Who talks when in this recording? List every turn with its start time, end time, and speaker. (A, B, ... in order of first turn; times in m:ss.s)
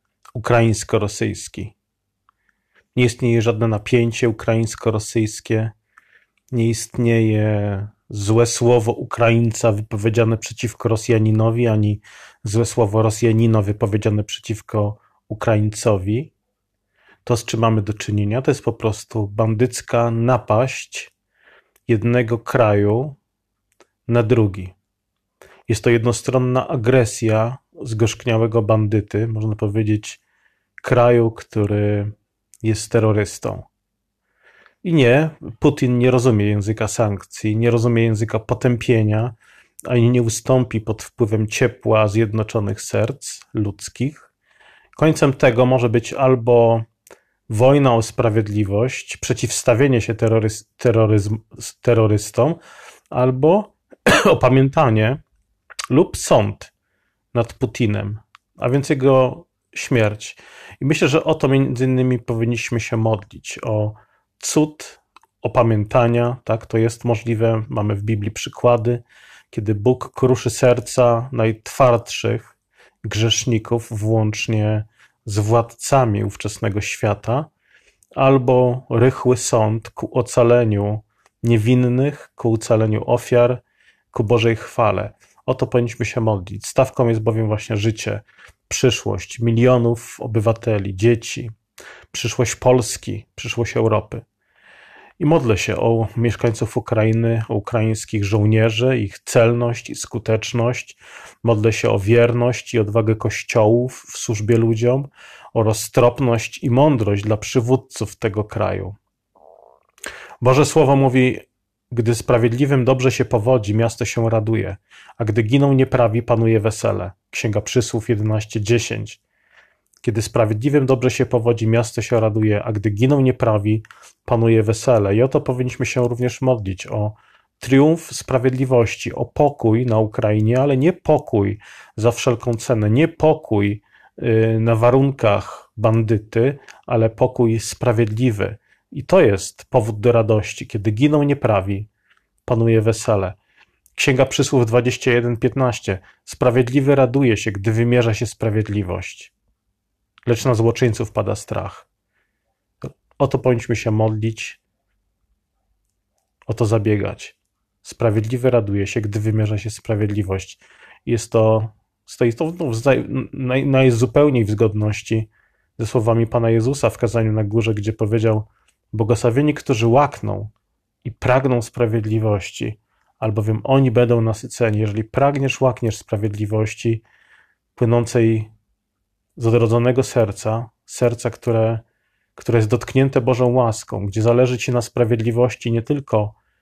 0:00.3-0:01.7 A
0:02.9-0:05.7 A
0:06.5-0:16.3 A
0:17.2-0:21.1 A
0:21.9-0:23.2 A
0:24.1-0:24.7 A
0:25.7-0:30.2 A
0:30.8-0:33.7 A
0:34.8-0:44.3 A
0:45.0-0:46.9 A
0:47.5-0:52.6 A
0:53.1-0:55.2 A
0:55.9-0:56.7 A
0:57.3-1:17.5 A
1:18.2-1:31.5 A
1:32.1-1:34.2 A
1:35.2-1:49.0 A
1:50.4-1:59.2 A
2:00.0-2:21.9 A
2:22.4-2:23.4 A
2:23.9-2:29.3 A
2:30.2-2:31.9 A
2:32.8-2:34.6 A
2:36.5-2:50.5 A
2:51.0-2:57.0 A
2:57.8-2:58.5 A
2:59.4-3:01.8 A
3:02.4-3:06.4 A